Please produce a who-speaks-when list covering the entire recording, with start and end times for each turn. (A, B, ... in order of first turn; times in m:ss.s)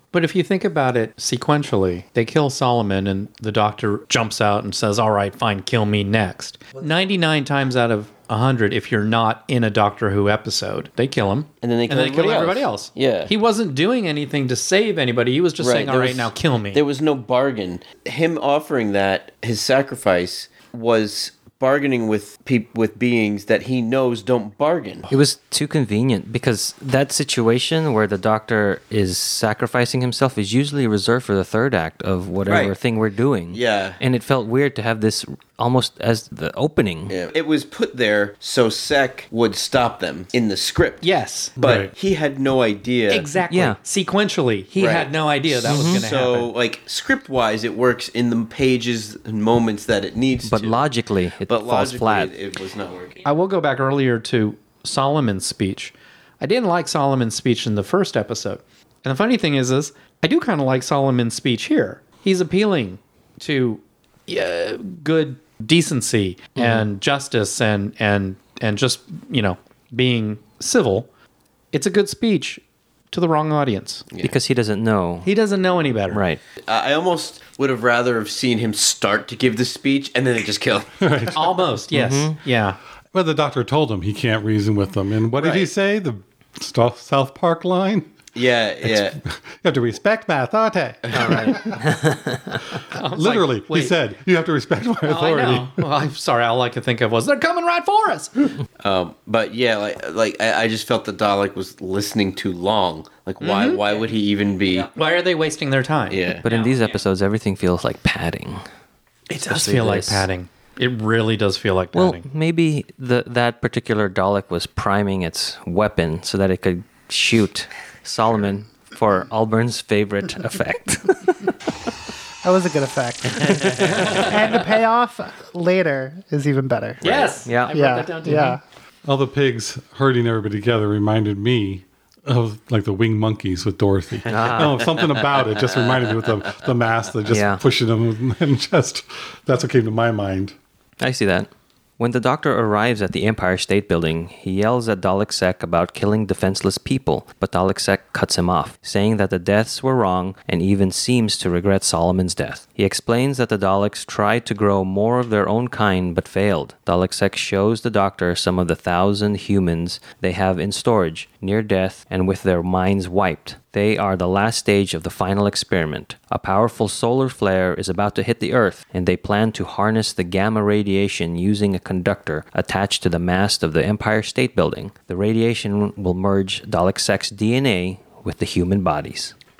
0:00.1-0:16.8 A
0:11.6-0:13.3 B
0:15.6-0:25.1 B
0:25.1-0:37.1 C
0:32.4-0:32.7 B
0:33.5-0:34.0 B
0:37.1-0:41.0 B
0:41.0-0:41.6 A
0:41.6-0:43.3 B
0:41.6-0:41.9 D
0:43.1-0:46.5 A
0:43.5-0:43.8 C
0:44.8-0:50.8 B
0:45.7-0:46.0 C
0:50.4-0:52.3 C
0:51.5-0:53.2 B
0:53.2-1:11.1 A
1:06.6-1:06.8 C
1:11.7-1:14.1 A
1:14.1-1:14.4 B
1:14.2-1:15.3 C
1:15.2-1:16.2 A
1:16.1-1:16.4 C
1:16.6-1:21.0 B
1:21.0-1:21.4 D
1:21.3-1:22.8 A
1:21.9-1:22.4 C
1:23.1-1:28.2 D
1:25.4-1:25.7 B
1:28.3-1:29.2 B
1:28.8-1:31.8 D
1:31.1-1:32.6 C
1:32.9-1:33.9 A
1:33.0-1:35.8 D
1:35.0-1:38.5 A
1:38.8-1:44.9 B
1:43.4-1:44.1 A
1:44.9-1:47.0 A
1:46.1-1:46.4 B
1:46.4-1:48.6 C
1:49.3-1:52.2 A
1:49.5-1:50.2 C
1:51.9-2:01.6 C
2:02.4-2:07.0 E
2:03.5-2:04.4 C
2:07.0-2:08.5 A
2:07.0-2:07.3 B
2:07.4-2:07.7 C
2:07.7-2:08.6 E
2:08.2-2:08.6 C
2:09.0-2:20.6 D
2:14.3-2:14.8 C
2:14.5-2:15.0 B
2:17.3-2:17.6 C
2:21.0-2:59.3 C